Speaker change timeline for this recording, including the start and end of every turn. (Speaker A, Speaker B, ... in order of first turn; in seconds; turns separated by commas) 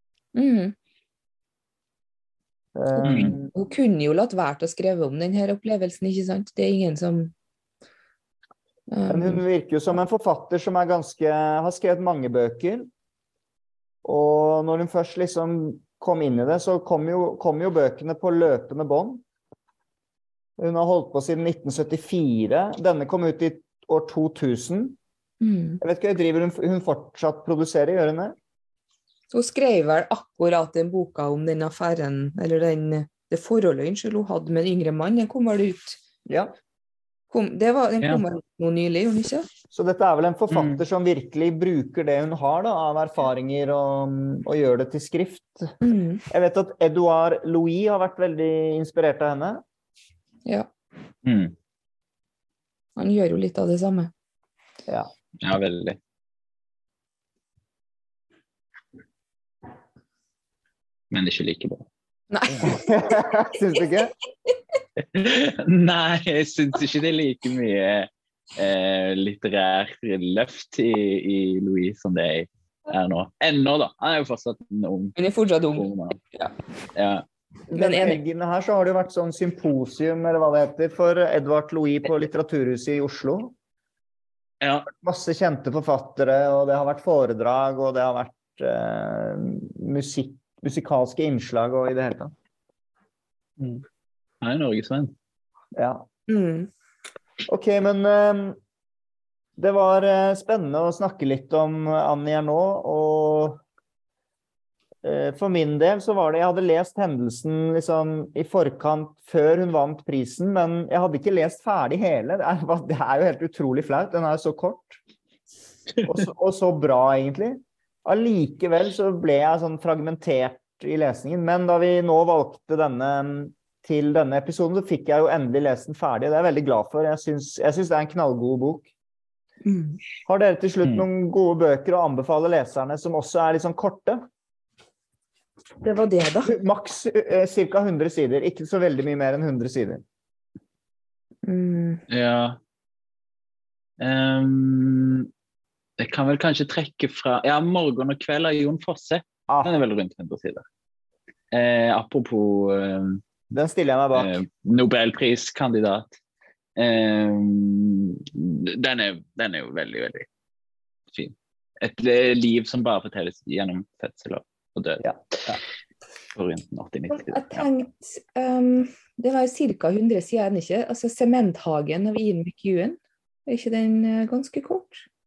Speaker A: 0.3-0.8, Speaker B: 2.8-3.5, Speaker A: 2.9-7.3, Speaker C: 3.0-3.3, Speaker A: 8.9-9.4, Speaker B: 9.1-12.9, Speaker B: 14.0-19.2, Speaker B: 20.6-25.0, Speaker A: 25.4-25.8, Speaker B: 25.8-28.4, Speaker A: 29.3-36.0, Speaker B: 36.3-36.5, Speaker A: 37.3-39.5, Speaker B: 39.7-45.8, Speaker C: 40.5-40.8, Speaker A: 45.8-46.2, Speaker B: 46.3-49.6, Speaker C: 51.2-51.5, Speaker A: 53.0-54.1, Speaker C: 55.4-56.0, Speaker C: 61.1-61.9, Speaker A: 62.3-63.3, Speaker B: 62.6-64.1, Speaker C: 65.0-75.2, Speaker A: 75.2-76.5, Speaker C: 75.7-76.2, Speaker C: 76.9-77.2, Speaker B: 77.7-83.5, Speaker A: 77.7-78.2, Speaker C: 84.6-84.9, Speaker B: 85.0-92.3, Speaker C: 93.6-93.8, Speaker C: 94.4-95.1, Speaker B: 95.8-96.1, Speaker A: 96.3-96.7, Speaker B: 97.5-98.6, Speaker B: 99.6-103.6, Speaker B: 105.0-115.0, Speaker B: 116.0-128.9, Speaker A: 129.7-130.0, Speaker B: 130.2-134.2, Speaker A: 135.8-136.6, Speaker B: 136.4-140.0, Speaker A: 141.4-142.0, Speaker C: 142.1-142.6, Speaker C: 144.0-145.3, Speaker C: 146.0-150.7, Speaker B: 149.5-149.8, Speaker C: 151.5-153.2, Speaker B: 153.5-154.4, Speaker C: 154.2-156.2, Speaker C: 156.8-160.3, Speaker C: 161.1-165.1, Speaker B: 165.0-165.6, Speaker C: 166.3-167.7, Speaker A: 167.1-175.1